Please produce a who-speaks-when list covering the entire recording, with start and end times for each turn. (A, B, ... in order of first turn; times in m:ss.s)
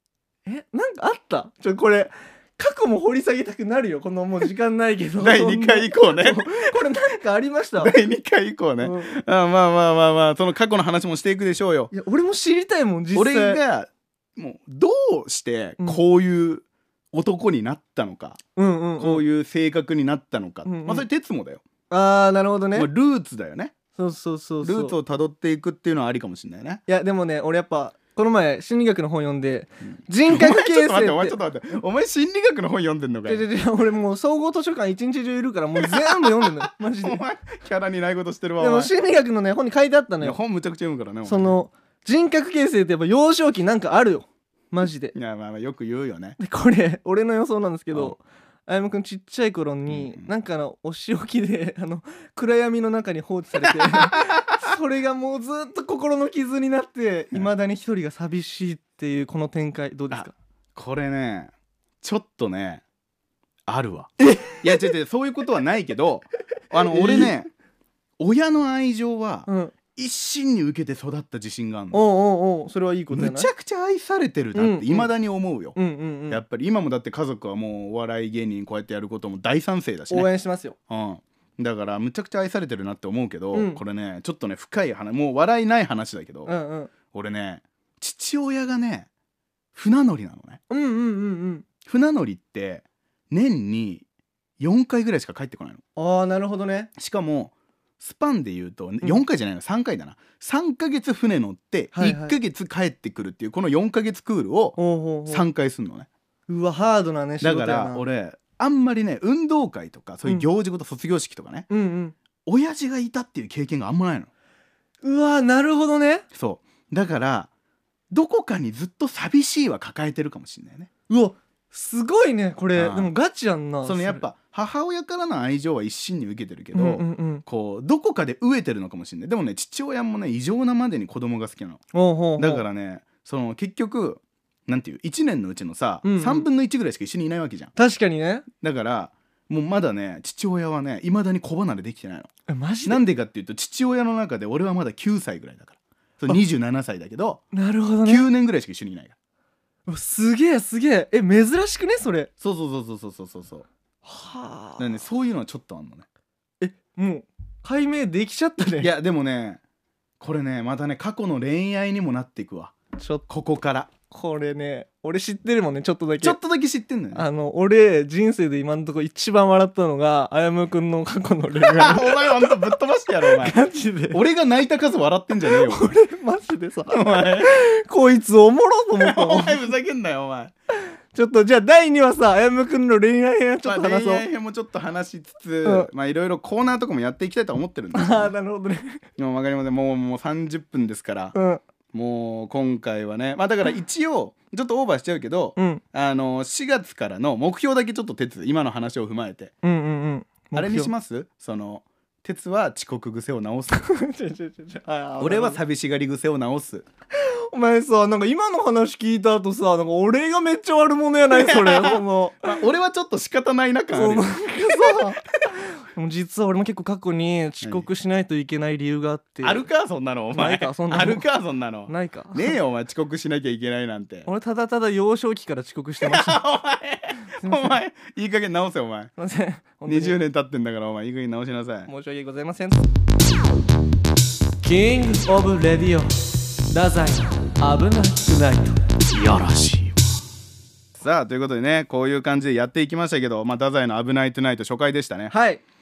0:00.4-0:07.9 A
0:05.2-0:06.8 B
0:07.8-0:11.9 B
0:08.8-0:09.1 A
0:11.9-0:13.6 A
0:13.1-0:18.4 B
0:18.6-0:19.2 A
0:19.0-0:21.6 B
0:20.6-0:21.0 A
0:21.9-0:22.9 A
0:22.7-0:23.7 B
0:23.9-0:24.9 A
0:24.6-0:26.8 B
0:26.9-0:31.4 A
0:29.9-0:33.4 B
0:33.2-0:37.2 A
0:36.0-0:38.9 B
0:38.6-0:40.4 A
0:40.2-0:41.6 B
0:41.2-0:45.1 A
0:45.1-0:46.4 B
0:46.4-1:00.3 A
0:49.9-0:50.3 B
0:53.9-0:54.7 B
1:00.1-1:02.8 B
1:03.7-1:07.5 B
1:04.2-1:04.9 A
1:06.9-1:07.3 A
1:08.2-1:12.0 B
1:09.5-1:09.7 A
1:11.9-1:13.5 A
1:13.1-1:20.3 B
1:14.5-1:15.1 A
1:15.7-1:16.4 A
1:20.1-1:20.8 A
1:20.9-1:26.5 B
1:23.5-1:23.8 A
1:26.4-1:26.9 A
1:27.1-1:29.1 B
1:29.7-1:30.6 B
1:30.7-1:31.6 A
1:31.8-1:34.0 B
1:34.6-1:35.8 B
1:36.0-1:36.9 A
1:37.0-1:46.1 B
1:41.9-1:42.4 A
1:44.8-1:45.4 A
1:46.5-1:48.0 A
1:47.4-1:51.7 B
1:51.7-1:52.1 A
1:52.4-1:54.3 B
1:55.0-1:56.2 A
1:56.3-1:57.5 B
1:58.1-2:00.9 B
2:01.1-2:04.2 A
2:02.8-2:03.1 B
2:03.8-2:11.8 B
2:06.7-2:07.4 A
2:11.9-2:12.6 A
2:12.4-2:17.7 B
2:16.0-2:16.5 A
2:17.8-2:18.4 A
2:18.6-2:22.3 B
2:22.5-2:23.0 A
2:22.8-2:27.4 B
2:27.5-2:28.3 A
2:28.0-2:29.1 B
2:29.9-2:32.3 A
2:32.4-2:33.6 B
2:34.0-2:34.8 A
2:34.8-2:36.0 B
2:36.6-2:38.9 A
2:38.8-2:39.6 B
2:40.2-2:43.9 B
2:43.0-2:43.2 A
2:44.1-2:46.4 A
2:46.2-2:47.2 B
2:47.1-2:52.7 A
2:51.6-2:53.6 B
2:53.2-2:54.2 A
2:54.1-2:55.9 B
2:55.5-2:59.7 A
2:56.9-2:57.5 B
2:59.0-3:00.5 B
3:00.8-3:04.2 A
3:03.6-3:08.3 B
3:05.6-3:05.9 A
3:07.9-3:09.0 A
3:09.2-3:11.4 B
3:11.3-3:11.6 A
3:11.9-3:19.5 B
3:15.6-3:15.8 A
3:19.6-3:20.9 A
3:20.5-3:23.9 B
3:23.7-3:25.6 A
3:25.2-3:26.8 B
3:27.1-3:32.6 A
3:31.3-3:35.2 B
3:33.9-3:35.2 A
3:35.8-3:39.6 A
3:39.4-3:44.3 B
3:40.3-3:41.2 A
3:41.9-3:42.6 A
3:44.2-3:46.4 A
3:46.0-3:49.1 B
3:47.4-3:47.8 A
3:49.2-3:50.2 A
3:49.8-3:51.9 B
3:51.9-3:52.9 A
3:54.6-3:58.9 A
3:59.1-4:00.0 B
4:01.0-4:05.3 B
4:05.3-4:05.6 A